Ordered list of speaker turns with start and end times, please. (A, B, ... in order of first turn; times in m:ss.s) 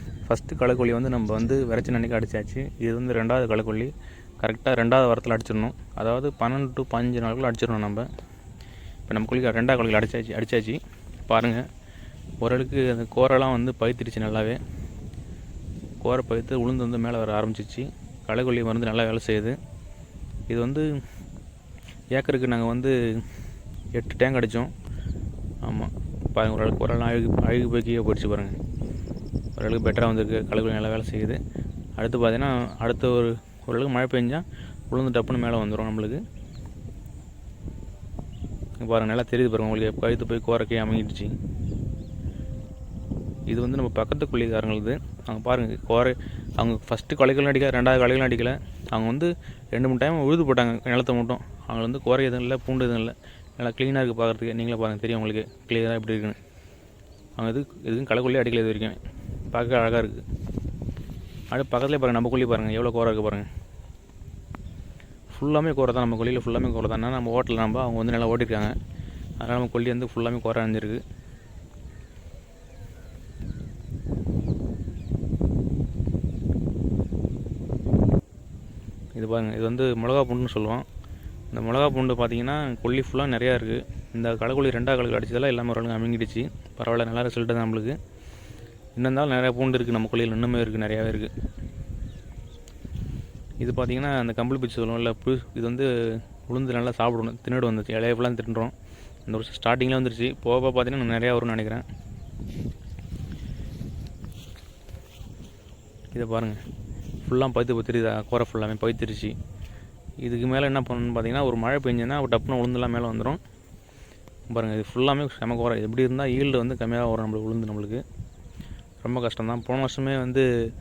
0:00.3-0:08.1 A
0:09.1-0:11.7 A
0:12.4-0:14.6 A
0:16.0-0:19.6 A
0:20.5-0:20.9 A
0:22.1-0:23.2 A
0:24.0-0:24.7 A
0:25.6-0:28.6 A
0:29.6-0:31.4 A
0:32.0-0:36.2 A
0:38.8-0:41.4 A
0:43.5-0:56.4 A
0:57.4-1:00.2 A
1:01.5-1:03.5 A
1:05.3-1:08.8 A
1:09.4-1:11.0 A
1:19.1-1:20.9 A
1:21.5-1:28.0 A
1:29.0-1:31.3 A
1:33.6-1:35.9 A
1:36.5-1:38.7 A
1:39.3-1:41.8 A
1:46.1-1:46.6 A
1:47.2-1:49.4 A
1:50.2-1:53.4 A
1:54.5-1:58.0 A
1:59.0-2:00.5 A